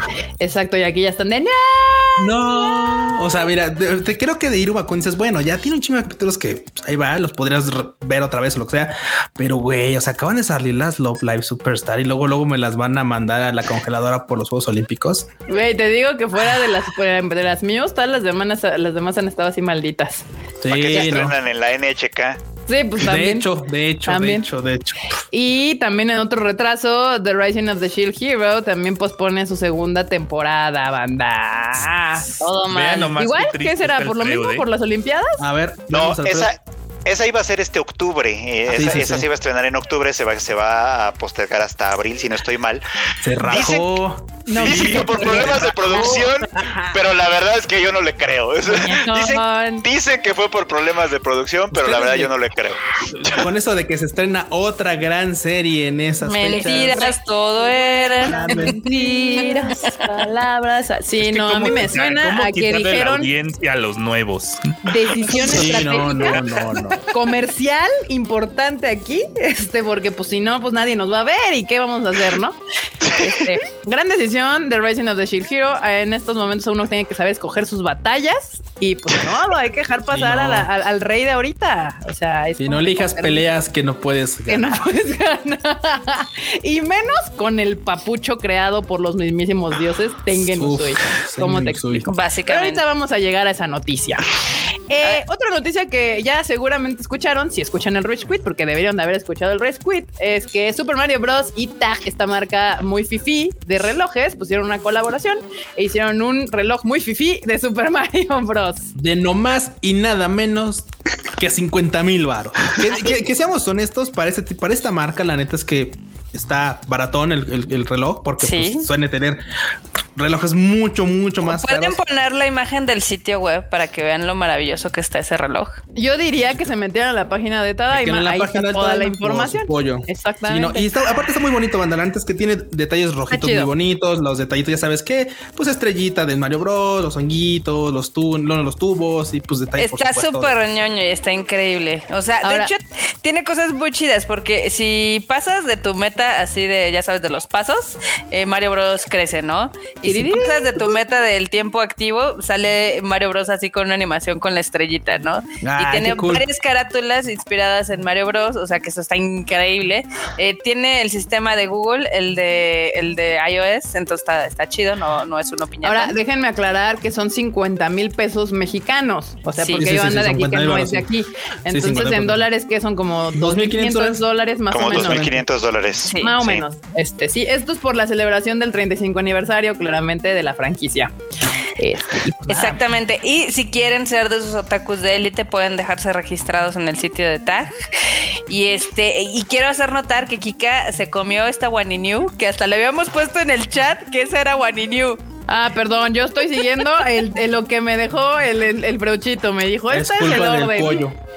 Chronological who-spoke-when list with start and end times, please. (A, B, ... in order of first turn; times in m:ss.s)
0:00.4-0:03.4 A
0:02.2-0:15.3 B
0:15.5-0:20.2 A
0:20.6-0:21.4 B
0:20.7-0:22.4 C
0:22.7-0:23.5 A
0:23.0-0:25.1 B
0:24.1-0:24.4 A
0:25.3-0:32.3 A
0:32.4-0:33.1 D
0:32.6-0:34.6 E
0:33.2-0:35.4 A
0:35.4-0:36.5 B
0:35.9-0:42.8 C
0:38.7-0:39.3 B
0:43.2-0:46.4 B
0:43.4-0:43.9 C
0:44.5-0:46.9 A
0:44.5-0:53.5 C
0:48.7-0:49.8 A
0:51.7-0:52.3 B
0:53.1-0:57.1 B
0:56.2-0:59.9 D
0:56.5-1:03.3 A
0:58.2-0:58.8 B
1:01.2-1:04.7 E
1:04.8-1:06.4 A
1:05.3-1:07.0 B
1:07.1-1:12.6 A
1:13.0-1:13.3 C
1:13.1-1:23.4 A
1:20.1-1:20.7 B
1:22.6-1:24.8 B
1:24.5-1:34.2 A
1:30.3-1:32.0 B
1:32.0-1:32.8 D
1:34.9-1:48.9 A
1:48.9-1:59.4 B
1:58.4-1:58.9 D
2:00.2-2:02.0 B
2:01.4-2:05.8 D
2:06.0-2:10.9 A
2:07.9-2:20.5 B
2:13.3-2:13.7 A
2:19.8-2:46.1 D
2:22.4-2:22.7 A
2:30.0-2:30.8 A
2:35.6-2:36.4 B
2:45.8-2:55.3 A
2:49.7-2:51.1 B
2:51.7-2:52.4 B
2:53.3-2:54.2 B
2:54.7-2:56.6 C
2:54.8-2:55.4 B
2:56.1-2:56.3 D
2:56.2-3:01.1 A
3:01.8-3:02.8 A
3:02.5-3:07.7 D
3:08.5-3:15.2 D
3:15.5-3:21.0 A
3:19.9-3:21.2 B